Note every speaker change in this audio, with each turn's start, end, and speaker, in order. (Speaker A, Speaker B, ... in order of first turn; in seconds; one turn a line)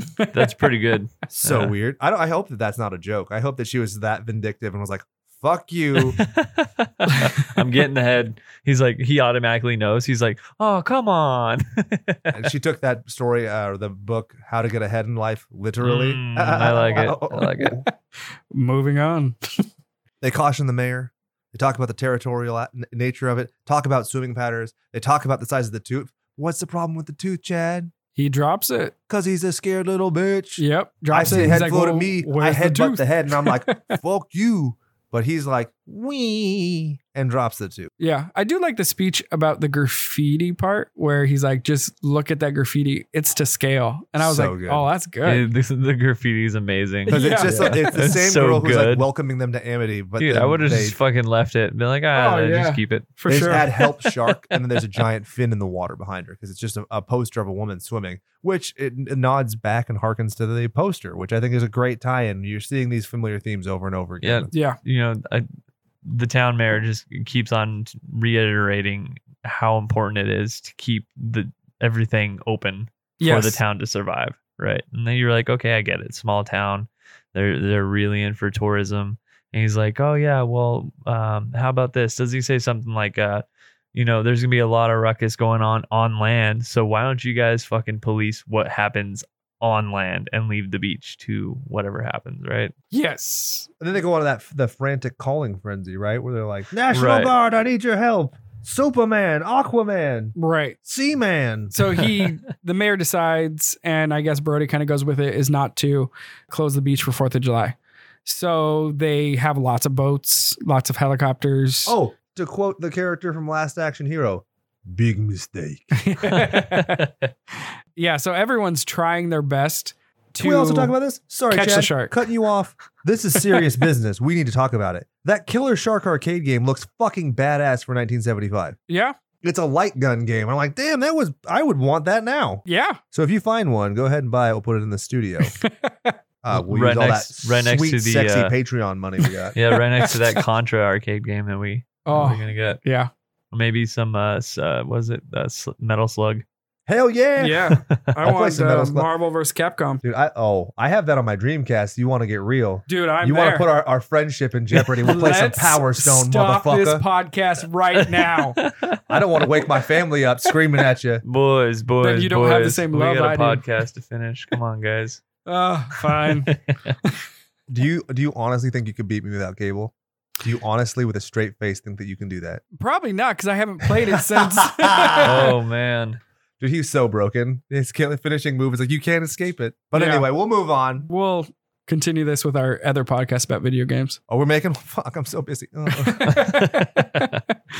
Speaker A: 0.1-0.7
Speaker B: 0.3-1.7
Speaker C: 1.3-6.2
Speaker B: 6.0-12.4
Speaker C: 12.3-17.9
Speaker B: 15.8-17.8
Speaker A: 18.5-19.6
Speaker C: 20.2-27.9
Speaker A: 28.1-28.9
Speaker C: 29.1-37.9
Speaker A: 30.6-34.0
Speaker A: 38.0-45.5
Speaker C: 44.2-44.9
Speaker B: 45.2-49.0
Speaker A: 47.1-47.9
Speaker C: 47.1-51.0
Speaker B: 50.2-53.8
Speaker A: 52.1-53.7
Speaker C: 53.3-64.5
Speaker B: 64.2-65.4
Speaker A: 64.5-64.8
Speaker B: 66.0-92.7
Speaker A: 73.2-73.6
Speaker A: 92.9-93.7
Speaker C: 93.8-100.3
Speaker B: 96.9-97.3
Speaker A: 100.3-100.8
Speaker C: 100.8-101.7
Speaker A: 101.7-112.0
Speaker C: 111.8-116.0
Speaker A: 115.9-117.1
Speaker B: 116.3-117.1
Speaker A: 118.0-120.9
Speaker C: 120.4-128.8
Speaker A: 121.5-122.2
Speaker A: 128.9-129.2
Speaker C: 129.4-135.6
Speaker A: 132.7-133.0
Speaker A: 135.4-136.2
Speaker C: 136.4-139.5
Speaker B: 136.5-138.5
Speaker B: 139.5-142.8
Speaker A: 139.6-140.4
Speaker A: 142.1-143.1
Speaker B: 143.5-146.4
Speaker C: 146.9-149.1
Speaker A: 147.4-150.0
Speaker C: 150.0-157.0
Speaker A: 152.9-153.7
Speaker A: 155.0-158.6
Speaker B: 158.0-159.8
Speaker C: 159.1-161.2
Speaker B: 161.2-165.2
Speaker A: 162.0-163.6
Speaker A: 165.4-166.5
Speaker B: 166.1-166.9
Speaker C: 167.7-172.6
Speaker A: 172.8-175.5
Speaker C: 174.1-175.5
Speaker B: 175.2-176.2
Speaker C: 176.6-181.1
Speaker A: 179.9-180.3
Speaker A: 181.1-184.2
Speaker C: 184.3-186.4
Speaker A: 185.9-187.5
Speaker B: 186.2-187.4